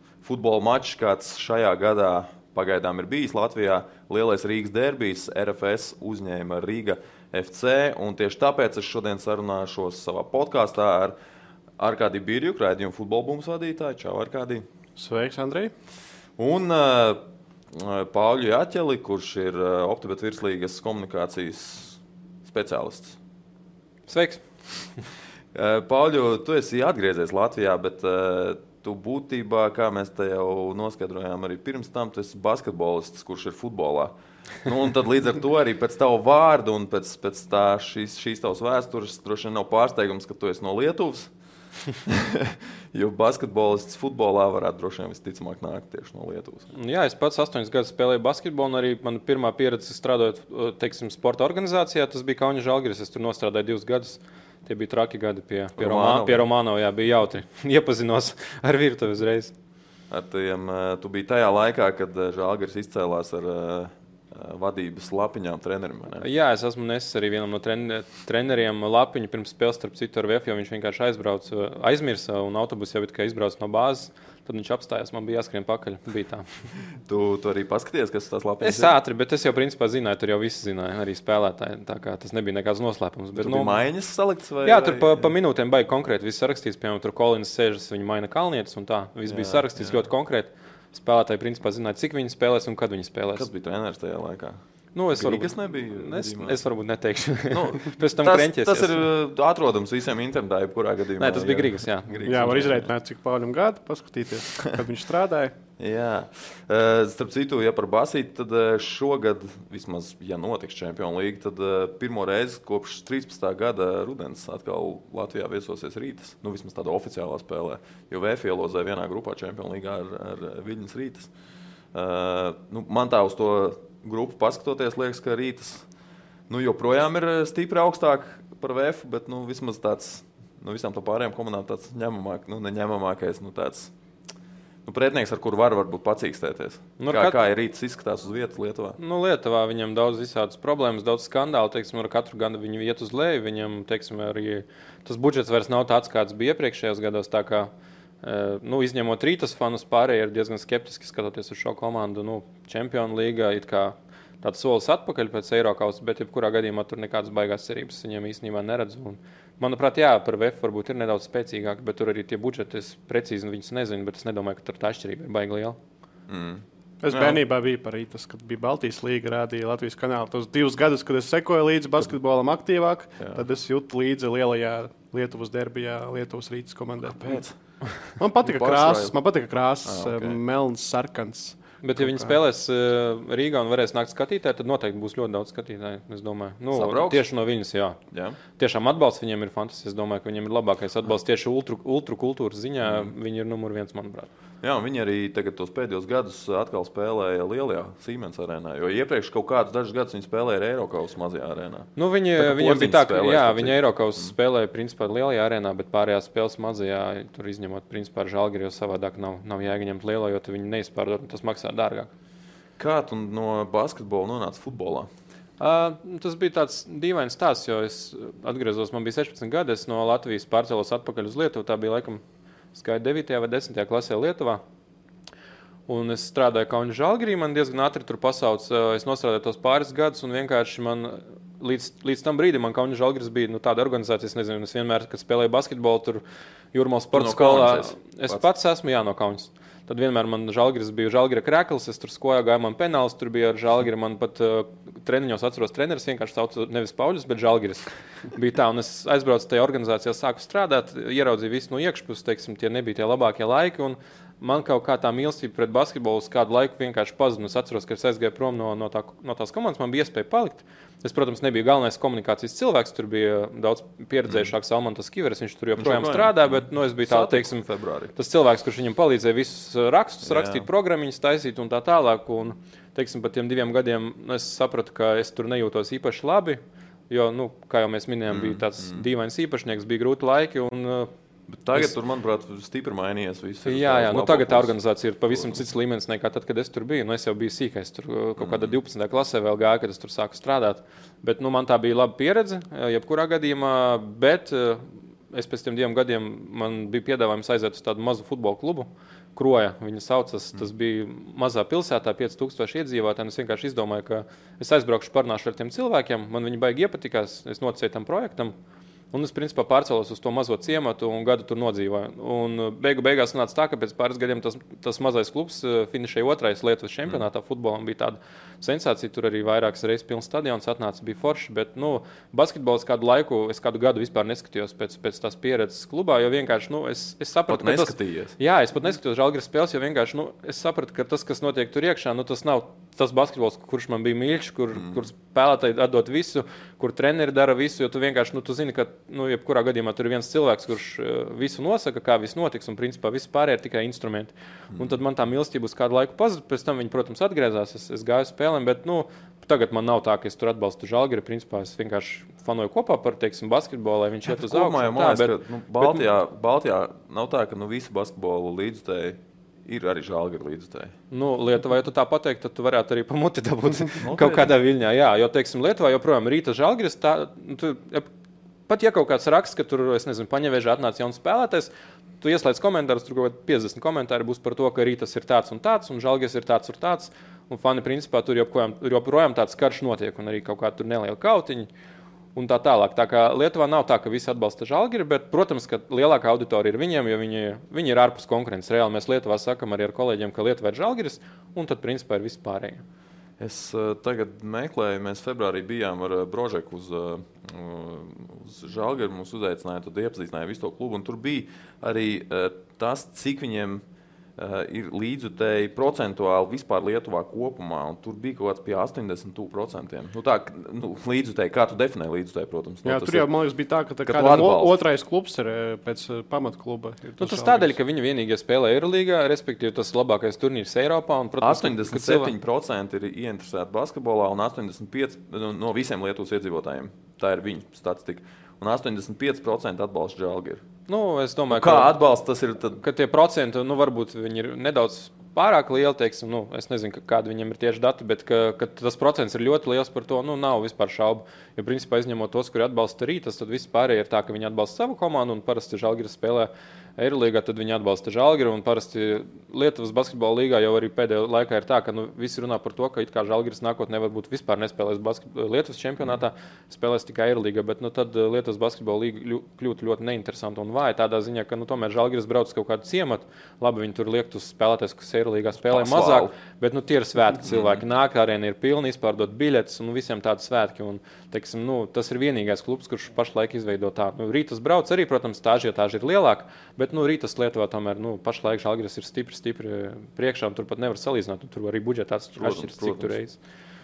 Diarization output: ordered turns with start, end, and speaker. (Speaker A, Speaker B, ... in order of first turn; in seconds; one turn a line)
Speaker A: 0.2-11.2
Speaker A: 11.8-14.7
Speaker B: 15.0-15.7
Speaker A: 16.4-23.2
Speaker C: 24.1-24.4
Speaker A: 25.5-34.1
Speaker A: 34.6-41.3
Speaker A: 42.0-46.7
Speaker C: 46.7-59.5
Speaker A: 55.8-56.5
Speaker A: 60.1-66.3
Speaker C: 66.2-76.6
Speaker A: 77.0-78.9
Speaker C: 78.6-83.8
Speaker A: 83.4-85.3
Speaker C: 84.6-93.5
Speaker A: 89.3-90.1
Speaker A: 93.3-96.6
Speaker C: 94.9-99.0
Speaker A: 97.5-102.9
Speaker C: 101.2-102.6
Speaker B: 102.2-105.6
Speaker A: 105.8-121.3
Speaker A: 121.9-125.9
Speaker A: 126.5-133.9
Speaker A: 134.8-139.0
Speaker C: 137.0-137.4
Speaker C: 139.0-147.7
Speaker C: 148.2-165.8
Speaker A: 166.3-167.4
Speaker B: 167.0-177.4
Speaker A: 173.2-173.4
Speaker A: 177.1-177.6
Speaker B: 178.2-182.4
Speaker A: 178.4-179.2
Speaker A: 179.8-180.4
Speaker C: 181.8-188.0
Speaker A: 186.7-187.2
Speaker A: 188.1-188.4
Speaker C: 188.6-194.3
Speaker A: 192.8-193.1
Speaker A: 194.6-204.3
Speaker C: 202.0-212.1
Speaker A: 212.8-215.1
Speaker C: 215.6-222.2
Speaker C: 222.7-224.6
Speaker C: 225.9-236.2
Speaker C: 236.7-281.1
Speaker A: 237.1-238.5
Speaker A: 264.3-264.5
Speaker A: 265.8-268.1
Speaker A: 270.2-270.7
Speaker A: 278.3-279.1
Speaker A: 281.5-284.8
Speaker C: 283.6-308.5
Speaker A: 285.3-285.6
Speaker A: 288.4-288.8
Speaker C: 309.1-356.0
Speaker A: 327.5-328.4
Speaker A: 334.7-335.1
Speaker A: 344.7-345.0
Speaker A: 354.3-360.9
Speaker C: 361.1-368.1
Speaker A: 364.0-364.5
Speaker C: 368.7-371.7
Speaker C: 372.2-381.7
Speaker C: 382.4-392.8
Speaker A: 393.4-403.8
Speaker A: 404.4-413.3
Speaker B: 412.8-417.7
Speaker A: 414.1-414.8
Speaker C: 417.2-422.3
Speaker A: 421.4-430.6
Speaker C: 430.9-432.0
Speaker A: 431.5-432.8
Speaker C: 432.8-483.4
Speaker A: 465.6-466.4
Speaker A: 467.4-467.8
Speaker A: 482.4-483.2